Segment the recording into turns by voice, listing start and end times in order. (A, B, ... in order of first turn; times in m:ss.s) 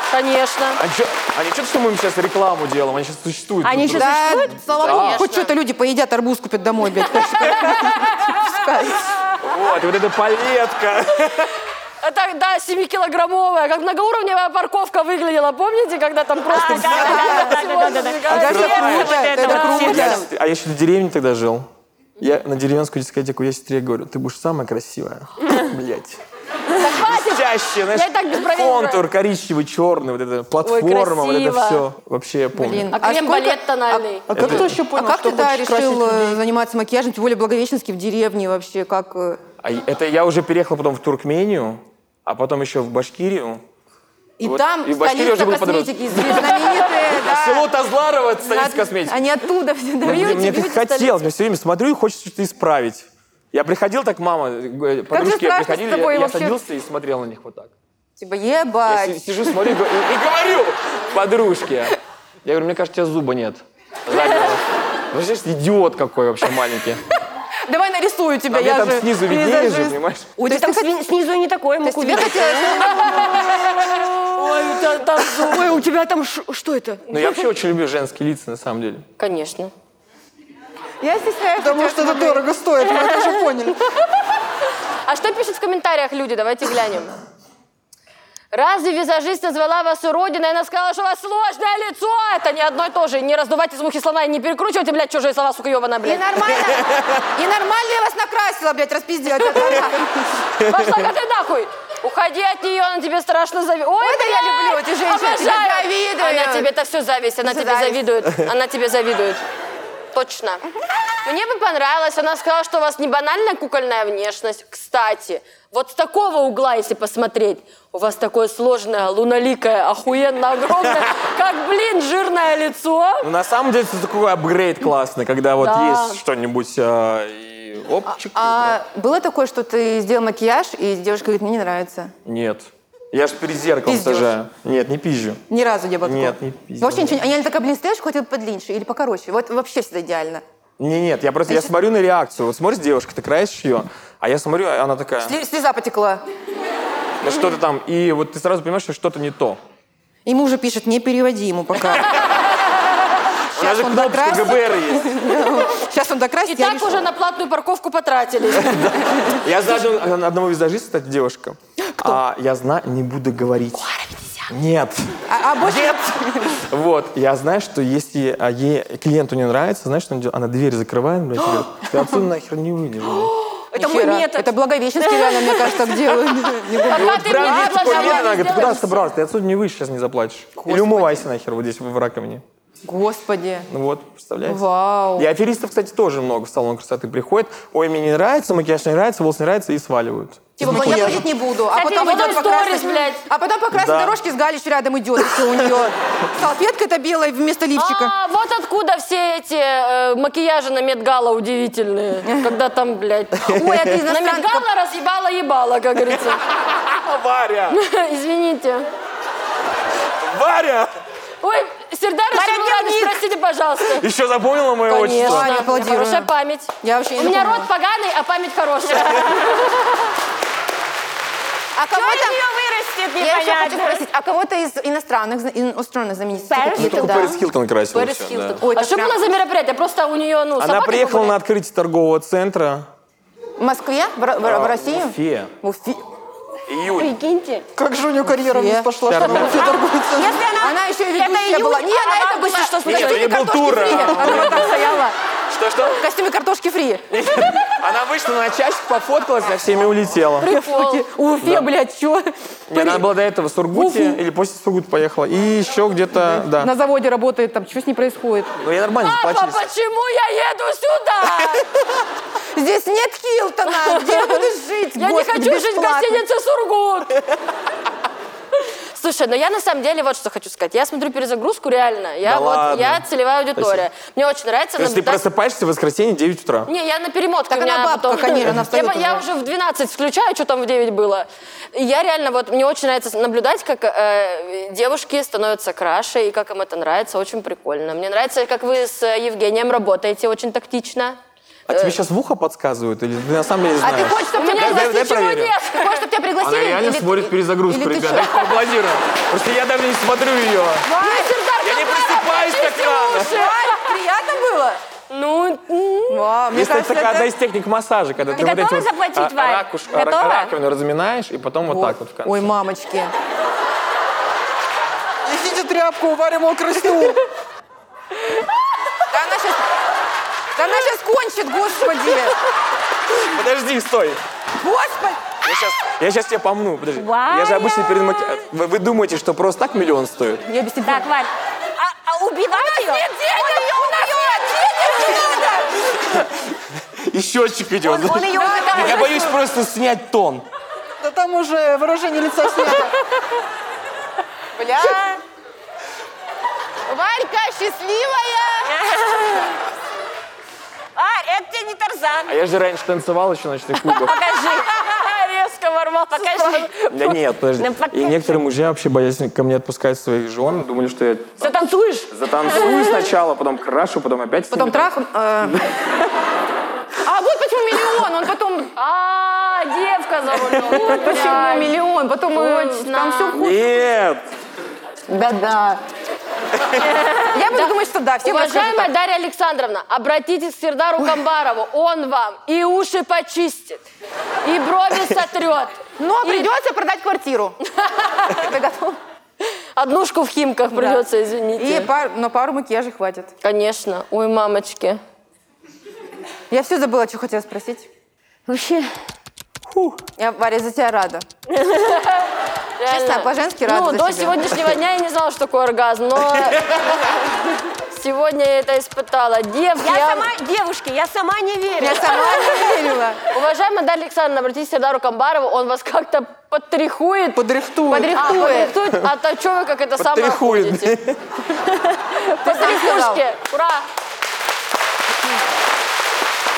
0:00.1-0:00.8 A
0:00.8-0:05.3 B
0:03.6-0:04.7 C
0:03.8-0:09.2 D
0:04.7-0:05.6 A
0:07.4-0:08.4 A
0:09.4-0:11.6 B
0:12.0-0:19.9 A
0:16.5-0:20.2 C
0:16.9-0:17.6 D
0:18.2-0:20.3 D
0:18.3-0:21.7 B
0:22.2-0:26.2 B
0:26.8-0:29.0 A
0:26.8-0:33.0 B
0:30.6-0:31.8 A
0:32.5-0:39.4 D
0:32.9-0:34.3 A
0:34.3-0:36.4 E
0:34.3-0:34.8 B
0:39.6-0:43.6 B
0:44.4-0:47.7 D
0:44.4-0:49.2 B
0:48.4-0:50.7 D
0:50.0-0:57.7 B
0:50.0-0:51.1 A
0:55.1-0:56.6 D
0:58.2-0:59.8 D
0:58.9-1:07.0 B
1:07.7-1:10.9 D
1:08.5-1:10.4 B
1:10.4-1:13.2 C
1:11.8-1:13.6 D
1:13.0-1:15.7 A
1:14.3-1:17.0 C
1:17.1-1:19.1 B
1:19.2-1:19.7 A
1:21.0-1:22.4 D
1:21.6-1:23.8 E
1:25.1-1:27.1 A
1:28.5-1:36.3 A
1:36.0-1:40.4 D
1:40.6-1:49.4 A
1:40.6-1:41.0 B
1:44.0-1:46.7 D
1:47.4-1:48.1 D
1:50.1-1:50.6 A
1:51.2-2:03.3 A
2:03.2-2:08.8 B
2:05.6-2:06.2 A
2:08.1-2:12.1 D
2:12.2-2:15.4 B
2:13.9-2:14.3 D
2:15.5-2:20.4 D
2:16.0-2:17.2 B
2:20.8-2:25.4 B
2:25.2-2:26.2 D
2:27.2-2:29.6 B
2:30.3-2:32.2 D
2:33.6-2:35.3 B
2:33.6-2:37.0 D
2:36.5-2:39.0 A
2:38.6-2:53.3 B
2:45.3-2:46.6 D
2:53.3-2:56.7 C
2:53.7-2:58.6 D
2:56.8-2:59.1 A
2:56.9-3:02.4 B
3:00.7-3:01.2 D
3:02.8-3:03.7 D
3:03.7-3:04.6 B
3:04.4-3:05.3 D
3:05.2-3:11.3 B
3:10.6-3:18.1 D
3:10.6-3:11.2 E
3:11.7-3:13.2 A
3:13.7-3:14.2 B
3:17.8-3:26.4 A
3:22.3-3:22.5 D
3:23.5-3:24.7 D
3:26.6-3:27.8 B
3:27.7-3:28.9 A
3:30.2-3:30.9 B
3:31.4-3:34.1 A
3:32.3-3:33.2 C
3:33.9-3:35.6 B
3:34.8-3:40.1 A
3:35.2-3:36.3 D
3:36.8-3:37.7 D
3:41.8-3:42.4 D
3:41.9-3:44.0 C
3:43.2-3:47.4 D
3:46.5-3:47.4 C
3:46.7-3:48.6 B
3:47.9-3:51.4 A
3:48.6-3:49.2 D
3:50.6-3:52.9 B
3:53.6-3:56.1 D
3:54.4-3:55.5 B
3:56.7-3:57.1 B
3:56.9-3:57.6 C
3:57.8-4:00.4 E
3:58.5-3:59.6 D
3:59.0-3:59.7 B
4:00.1-4:03.3 C
4:00.6-4:05.2 D
4:02.8-4:04.8 B
4:03.9-4:04.6 C
4:05.5-4:06.0 B
4:06.0-4:07.3 D
4:07.1-4:10.5 B
4:10.4-4:11.1 A
4:10.4-4:13.1 D
4:11.4-4:11.7 B
4:12.7-4:16.7 B
4:13.7-4:14.2 D
4:16.2-4:18.6 D
4:18.6-4:19.7 B
4:19.0-4:21.7 A
4:22.5-4:26.2 D
4:23.7-4:27.2 A
4:28.6-4:35.2 A
4:32.2-4:33.0 B
4:33.6-4:33.8 B
4:34.8-4:36.7 B
4:36.7-4:51.2 A
4:37.5-4:39.2 D
4:51.7-4:55.6 B
4:51.7-4:52.0 A
4:53.8-4:58.6 D
4:54.4-4:56.1 A
4:56.4-5:00.9 B
5:00.9-5:01.4 D
5:00.9-5:03.8 A
5:01.6-5:03.5 B
5:03.2-5:04.8 D
5:05.1-5:06.3 A
5:06.1-5:07.3 D
5:06.5-5:12.5 B
5:08.3-5:10.5 C
5:11.7-5:13.1 D
5:15.2-5:17.2 E
5:19.1-5:19.6 D
5:20.6-5:22.4 D
5:23.2-5:24.2 B
5:24.6-5:25.3 D
5:25.4-5:30.5 B
5:27.0-5:28.0 C
5:30.5-5:31.1 D
5:30.8-5:34.4 C
5:32.8-5:35.5 A
5:33.0-5:35.8 D
5:35.0-5:35.4 C
5:36.0-5:36.3 B
5:37.0-5:40.4 B
5:37.8-5:39.3 C
5:38.3-5:39.4 D
5:41.0-5:43.0 E
5:44.6-5:45.0 D
5:44.8-5:45.2 C
5:46.9-5:48.7 D
5:48.6-5:49.6 C
5:51.0-5:52.3 C
5:52.3-5:54.2 B
5:54.0-5:56.9 A
5:54.0-5:54.9 C
5:56.1-5:58.4 C
5:56.9-6:01.6 B
6:01.4-6:03.0 C
6:02.1-6:04.9 B
6:04.5-6:05.6 D
6:07.0-6:08.7 D
6:08.8-6:11.7 A
6:10.7-6:13.6 D
6:12.3-6:13.6 A
6:13.4-6:14.2 B
6:15.1-6:15.8 D
6:16.9-6:23.8 A
6:17.3-6:18.9 D
6:24.4-6:26.5 A
6:26.0-6:27.6 D
6:27.8-6:28.4 A
6:28.3-6:29.0 D
6:29.8-6:31.9 A
6:30.7-6:31.1 D
6:31.6-6:33.3 D
6:33.4-6:35.0 A
6:36.5-6:37.9 D
6:38.5-6:38.9 C
6:39.7-6:40.0 B
6:40.2-6:41.2 D
6:41.8-6:47.1 A
6:42.9-6:44.5 D
6:47.9-6:50.3 A
6:49.8-6:52.9 C
6:51.8-6:53.2 D
6:53.3-6:57.4 A
6:57.4-6:58.3 E
6:57.9-6:58.8 D
6:58.1-7:01.0 A
7:00.0-7:01.2 B
7:02.1-7:03.9 A
7:02.4-7:03.2 D